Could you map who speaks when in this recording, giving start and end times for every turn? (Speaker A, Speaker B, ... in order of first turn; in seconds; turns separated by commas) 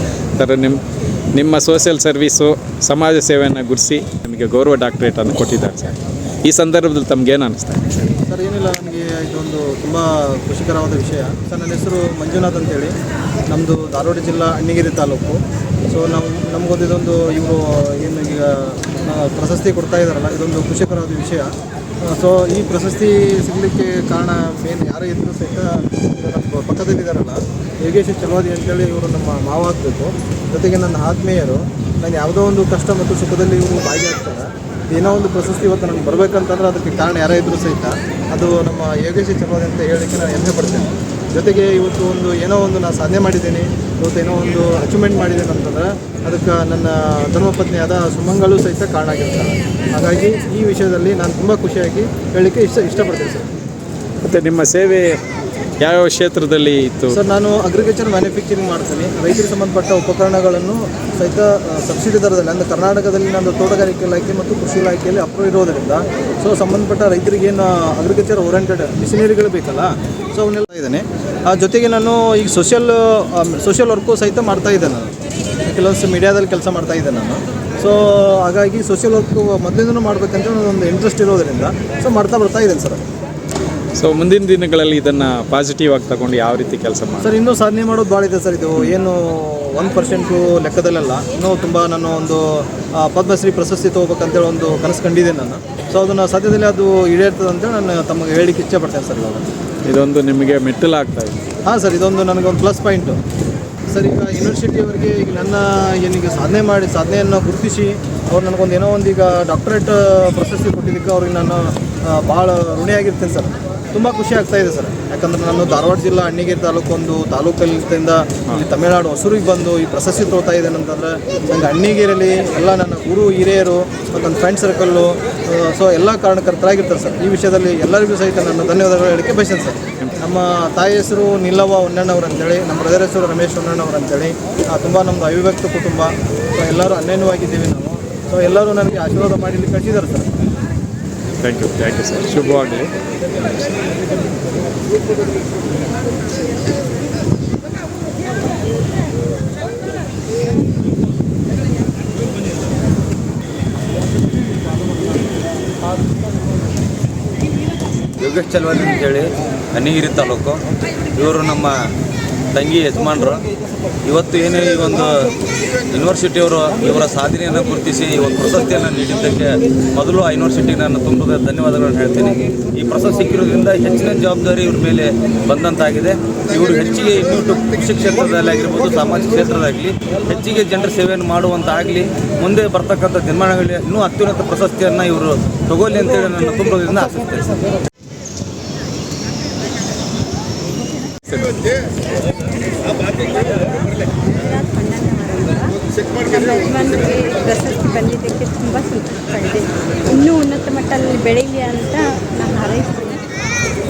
Speaker A: 0.4-0.8, Speaker A: 1.4-5.9, Speaker A: 6.5-8.1, Speaker B: 8.3-12.9, Speaker B: 13.5-15.4, Speaker B: 15.9-21.5, Speaker B: 22.0-53.5, Speaker A: 54.2-55.0, Speaker A: 55.8-57.1, Speaker B: 57.1-83.0, Speaker A: 84.0-87.3, Speaker B: 87.2-99.5, Speaker A: 99.8-101.4, Speaker B: 101.7-103.2, Speaker B: 103.9-140.3, Speaker A: 141.4-143.8, Speaker C: 158.2-161.8, Speaker C: 162.5-163.5, Speaker C: 164.0-165.3, Speaker C: 165.9-187.6, Speaker A: 191.3-191.6, Speaker D: 192.6-203.3